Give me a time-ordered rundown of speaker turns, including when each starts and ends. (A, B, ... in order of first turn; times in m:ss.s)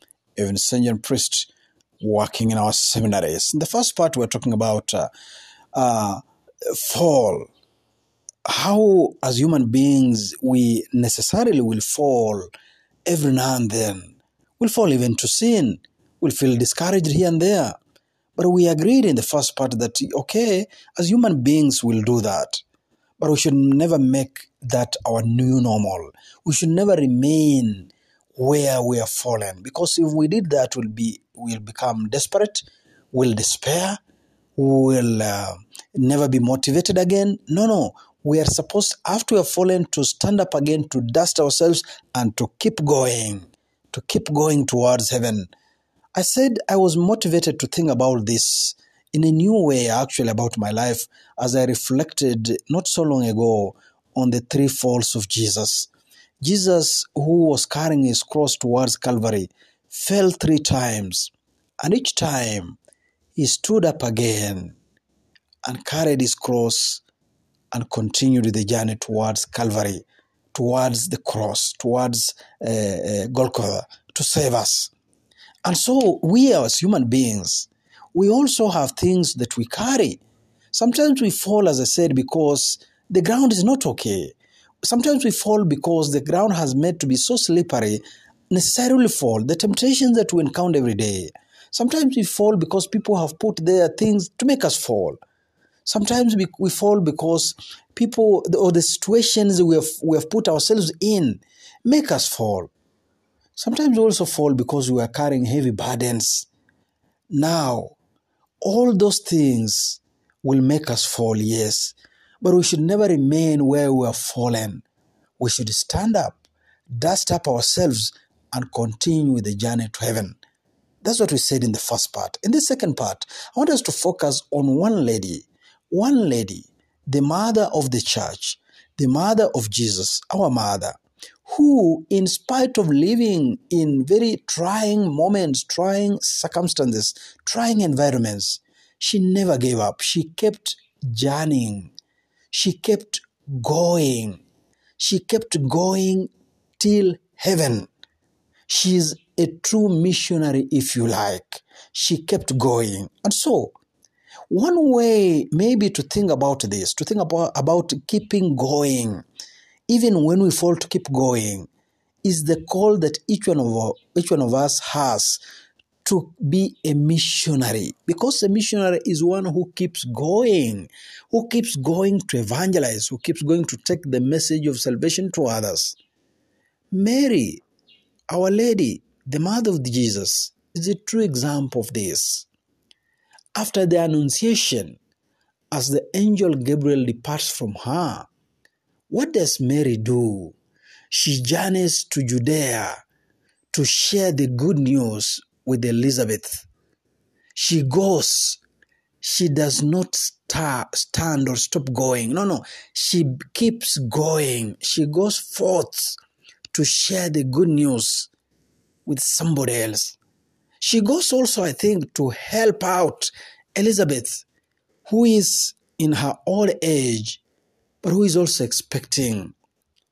0:00.4-0:05.1 A
0:05.7-0:07.5 A
0:08.5-0:12.5 A
0:13.1-0:17.8 A
0:18.4-0:22.6 A
0:23.2-0:34.0 A
0:34.6-0:45.5 A
0:46.2-0:55.9 A
0:56.4-1:02.8 A
1:03.4-1:04.8 A
1:05.6-1:07.0 A
1:07.7-1:14.9 A
1:15.6-1:20.2 A
1:20.7-1:35.2 A
1:35.9-1:42.7 A
1:43.6-1:46.5 A
1:47.3-1:48.0 A
1:48.6-1:54.8 A
1:55.4-1:56.4 A
1:56.9-2:00.4 A
2:01.0-2:21.9 A
2:22.5-2:24.4 A
2:25.0-2:27.9 A
2:28.7-2:33.7 A
2:34.5-2:39.2 A
2:39.9-2:41.7 A
2:42.2-2:45.4 A
2:46.0-2:56.0 A
2:56.9-2:57.6 A
2:58.3-3:02.5 A
3:03.6-3:05.0 A
3:05.7-3:08.3 A
3:09.1-3:10.6 A
3:11.1-3:13.0 A
3:13.7-3:16.7 A
3:17.6-3:18.6 A
3:19.2-3:26.2 A
3:26.7-3:28.3 A
3:29.1-3:30.2 A
3:30.8-3:34.5 A
3:35.1-3:37.4 A
3:38.0-3:39.6 A